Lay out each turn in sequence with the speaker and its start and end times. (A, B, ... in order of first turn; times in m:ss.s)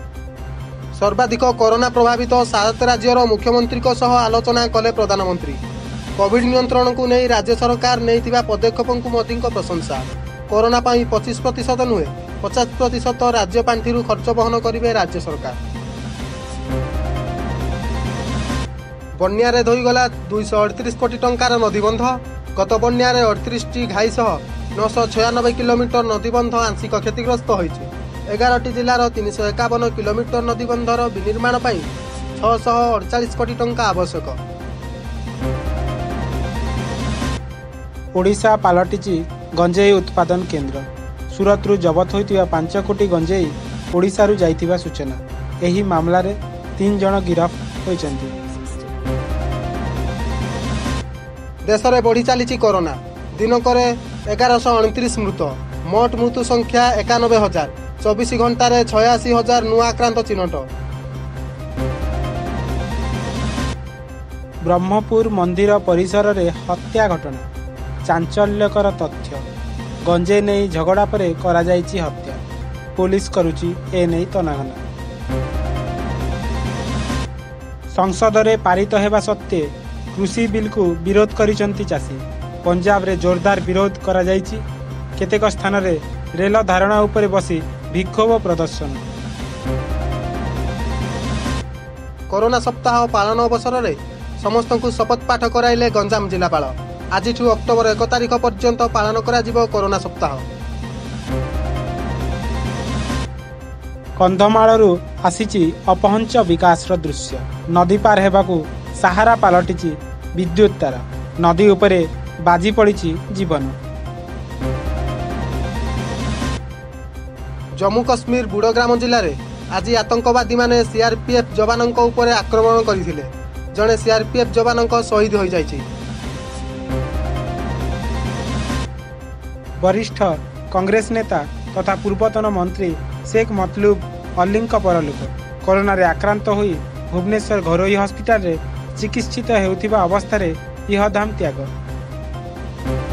0:01.0-0:05.6 A
0:06.2-0:15.6 A
0:19.2-0:31.8 A
0:32.4-0:34.4 A
0:38.2-0:48.3 B
0:51.7-1:00.7 A
1:04.7-1:07.5 B
1:08.1-1:09.4 B
1:10.1-1:12.4 B
1:13.0-1:14.8 B
1:17.9-1:24.6 B
1:25.2-1:29.0 B
1:32.3-1:40.4 A
1:44.2-1:53.8 B
1:57.8-2:05.8 A
2:09.8-2:21.7 B